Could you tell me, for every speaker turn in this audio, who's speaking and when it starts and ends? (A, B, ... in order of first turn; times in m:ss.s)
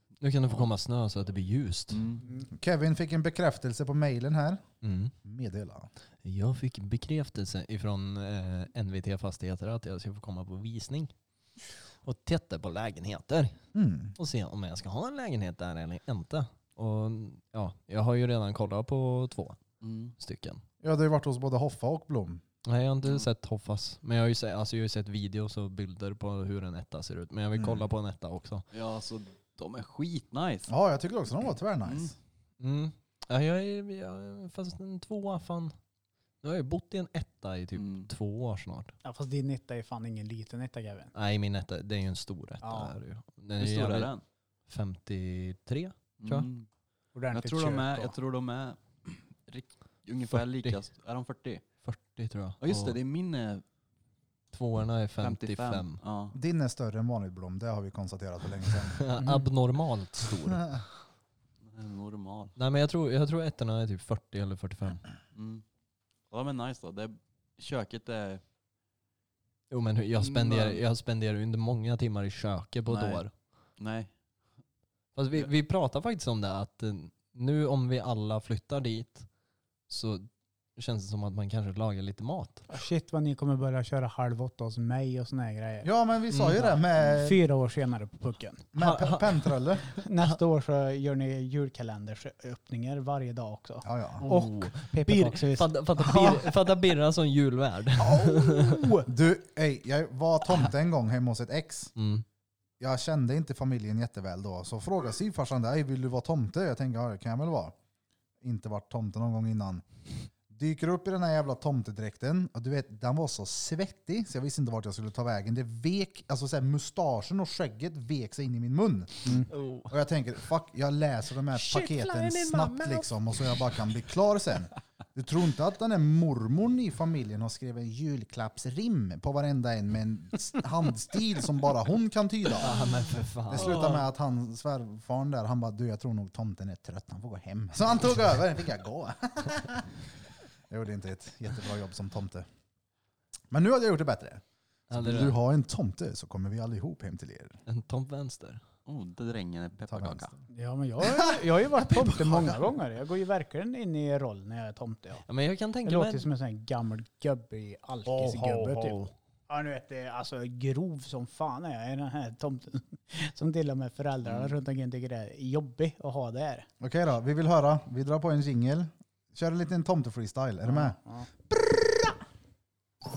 0:00.2-0:02.0 A
0:01.9-0:02.2 B
0:02.5-0:04.6 C
0:04.8-0:05.1 A
0:05.2-0:05.9 C
0:06.2-0:11.1 A
0:12.0-0:13.6 A
0:13.7-0:14.1 C
0:14.2-0:19.6 A
0:19.8-0:20.1 B
0:20.2-0:20.6 A
0:20.8-0:22.4 C
0:22.6-0:28.6 A
0:28.7-0:30.7 B
0:30.7-0:32.2 C
0:31.9-0:32.1 B
0:32.6-0:35.7 A
0:36.4-0:38.9 A
0:37.8-0:38.1 B
0:39.0-0:41.1 D
0:41.2-0:44.1 A
0:42.6-0:42.9 D
0:43.6-0:44.2 B
0:44.7-0:46.5 A
0:46.2-0:46.7 B
0:47.1-0:48.1 D
0:47.3-0:51.6 B
0:50.3-0:50.8 A
0:51.8-0:53.0 A
0:52.6-0:53.6 B
0:54.5-0:56.0 A
0:55.2-0:56.4 B
0:56.3-0:59.0 C
0:59.0-1:00.8 A
0:59.2-0:59.4 D
1:01.6-1:02.5 B
1:02.6-1:05.0 A
1:05.3-1:05.6 B
1:06.3-1:08.4 B
1:09.7-1:13.3 A
1:10.2-1:10.8 B
1:12.9-1:13.2 B
1:13.8-1:14.1 B
1:15.2-1:19.3 A
1:19.9-1:22.7 A
1:22.7-1:25.9 D
1:25.8-1:27.4 C
1:26.3-1:26.7 A
1:27.0-1:28.7 D
1:28.7-1:29.9 C
1:28.8-1:29.6 A
1:30.0-1:36.6 D
1:33.8-1:34.2 C
1:34.2-1:38.9 A
1:38.0-1:39.1 D
1:39.1-1:41.9 C
1:42.0-1:42.2 A
1:42.8-1:47.8 C
1:48.4-1:49.8 C
1:50.5-2:12.8 C
1:59.5-1:59.9 A
2:01.6-2:03.1 A
2:12.6-2:14.0 A
2:13.5-2:19.9 C
2:20.7-2:22.5 C
2:23.5-2:27.6 C
2:24.9-2:25.4 A
2:27.7-2:28.6 A
2:28.9-2:30.3 B
2:29.9-2:30.4 C
2:30.5-2:35.2 D
2:31.0-2:32.7 C
2:35.3-2:36.3 A
2:35.8-2:46.7 D
2:38.1-2:38.6 C
2:38.1-2:39.1 A
2:44.2-2:44.5 B
2:46.8-2:51.0 C
2:50.7-2:51.3 D
2:51.6-2:52.1 C